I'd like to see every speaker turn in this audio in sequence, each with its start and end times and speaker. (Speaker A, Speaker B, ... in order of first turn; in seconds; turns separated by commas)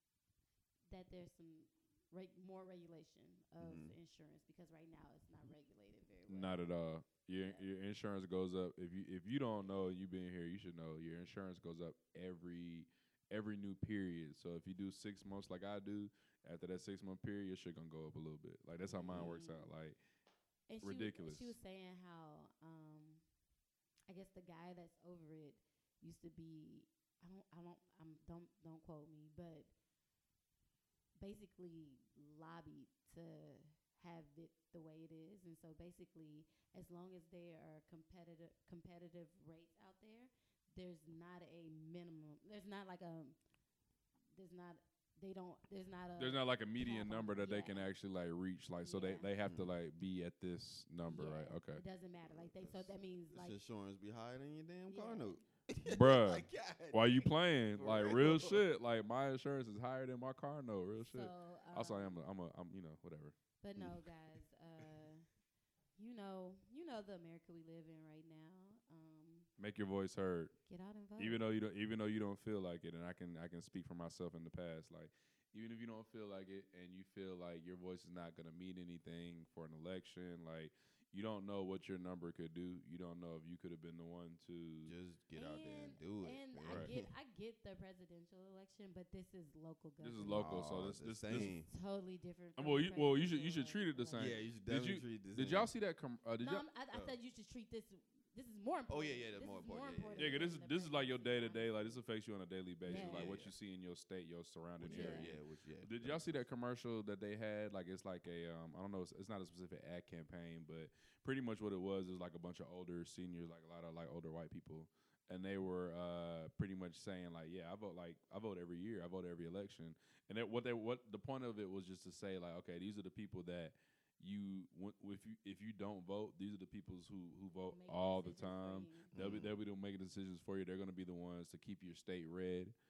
Speaker A: 0.9-6.6, Speaker B: 3.6-4.0, Speaker C: 6.3-20.0, Speaker A: 18.9-19.7, Speaker B: 19.1-19.4, Speaker A: 20.7-23.2, Speaker C: 20.8-21.6, Speaker A: 24.1-29.7, Speaker A: 31.2-43.4, Speaker A: 44.3-47.9, Speaker C: 46.2-51.8, Speaker A: 48.8-49.3, Speaker B: 49.4-49.7, Speaker A: 51.0-53.6, Speaker B: 52.2-58.7, Speaker A: 54.9-55.4, Speaker C: 55.9-63.4, Speaker A: 61.0-62.2, Speaker A: 63.6-65.3, Speaker B: 63.8-64.1, Speaker A: 66.0-69.5, Speaker C: 69.6-70.5, Speaker A: 70.7-71.4, Speaker C: 71.2-85.0, Speaker B: 84.8-87.1, Speaker A: 85.4-90.5, Speaker C: 86.7-86.9, Speaker C: 90.0-91.5, Speaker B: 90.2-91.7, Speaker A: 91.4-94.4, Speaker C: 92.6-96.7, Speaker B: 94.2-95.7, Speaker A: 96.4-102.0, Speaker B: 98.9-100.5, Speaker C: 100.2-132.8, Speaker A: 102.8-103.4, Speaker B: 102.9-103.5, Speaker B: 104.8-106.4, Speaker A: 104.9-105.3, Speaker A: 127.7-129.1, Speaker B: 129.1-129.6